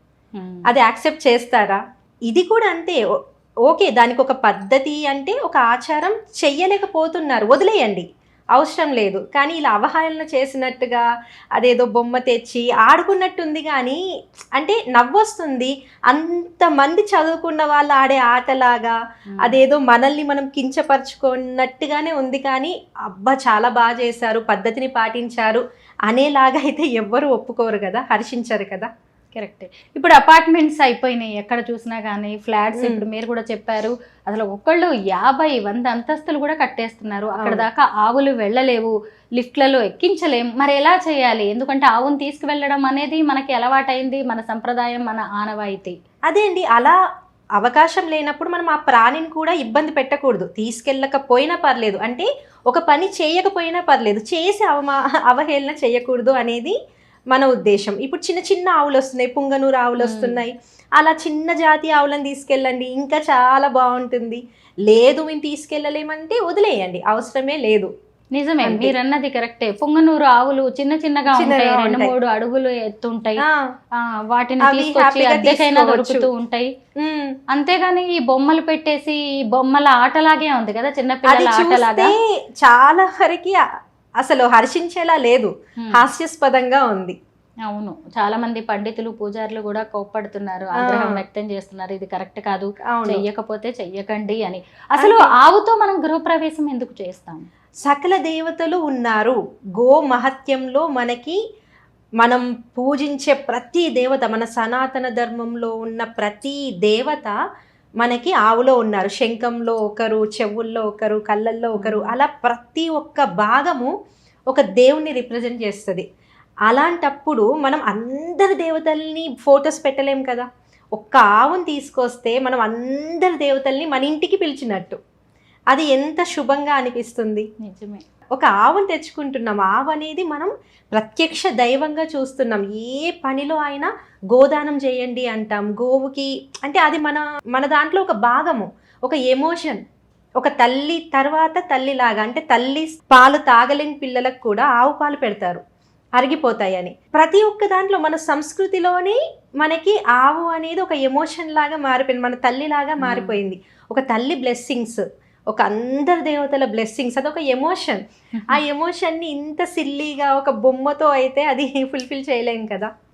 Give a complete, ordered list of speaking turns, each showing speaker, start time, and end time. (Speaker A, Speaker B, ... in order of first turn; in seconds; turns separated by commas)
Speaker A: 0.3-0.8, Speaker B: 0.7-3.0, Speaker B: 3.7-8.1, Speaker B: 8.6-11.0, Speaker B: 11.6-14.0, Speaker B: 14.6-28.9, Speaker A: 29.3-46.0, Speaker B: 32.8-33.0, Speaker B: 37.4-37.6, Speaker B: 46.3-47.0, Speaker B: 47.6-56.7, Speaker B: 57.3-67.9, Speaker A: 60.0-60.4, Speaker A: 68.3-73.4, Speaker B: 68.6-69.0, Speaker B: 71.3-72.1, Speaker A: 74.3-76.7, Speaker B: 74.6-76.3, Speaker B: 77.0-77.3, Speaker A: 77.5-82.1, Speaker B: 81.3-83.6, Speaker B: 84.2-87.2, Speaker A: 87.7-97.4, Speaker B: 90.8-91.2, Speaker B: 92.9-93.2, Speaker B: 95.0-95.3, Speaker B: 97.8-101.4, Speaker B: 102.2-107.4, Speaker B: 108.0-113.9, Speaker A: 111.8-112.2, Speaker B: 114.5-116.0, Speaker B: 116.7-125.0, Speaker B: 125.7-127.5, Speaker A: 127.6-128.0, Speaker B: 128.4-139.8, Speaker B: 140.4-145.6, Speaker B: 146.2-162.9, Speaker A: 153.0-153.4, Speaker A: 158.4-158.6